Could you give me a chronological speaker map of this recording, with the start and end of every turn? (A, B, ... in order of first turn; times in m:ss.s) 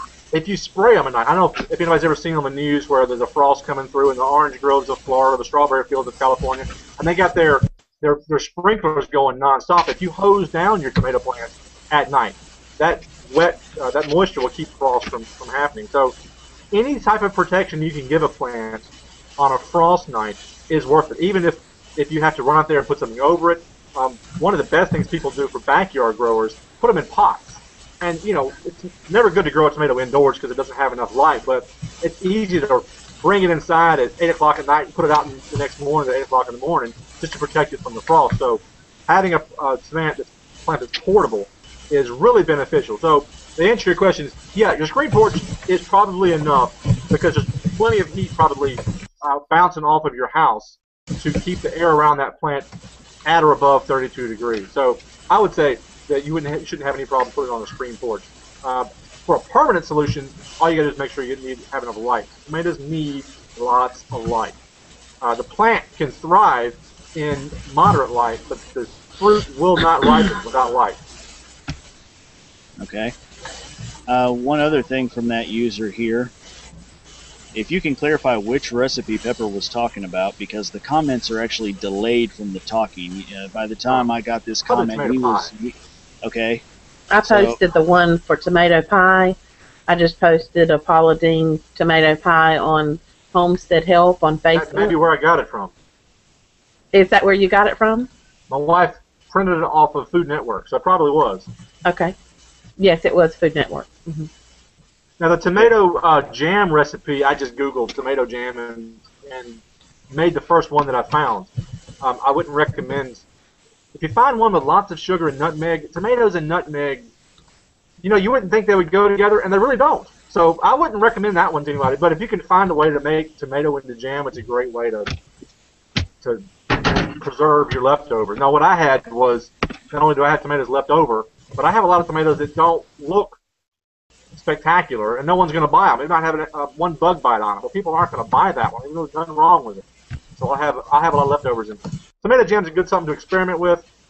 0:00.3-0:16.1 A
0:16.7-0:52.7 A
0:53.2-1:04.6 A
1:05.2-1:11.0 A
1:12.8-1:13.1 B
1:14.1-1:16.3 B
1:17.5-1:26.6 B
1:24.7-1:25.5 A
1:27.1-1:29.4 C
1:27.2-1:27.6 B
1:29.9-1:34.9 C
1:34.5-1:35.7 A
1:36.9-1:38.1 C
1:38.5-1:41.5 A
1:41.8-1:42.1 C
1:42.8-1:44.3 C
1:45.2-1:53.2 A
1:53.9-1:57.1 A
1:58.0-2:05.1 A
2:06.2-2:13.4 A
2:14.3-2:19.8 A
2:20.4-2:23.9 A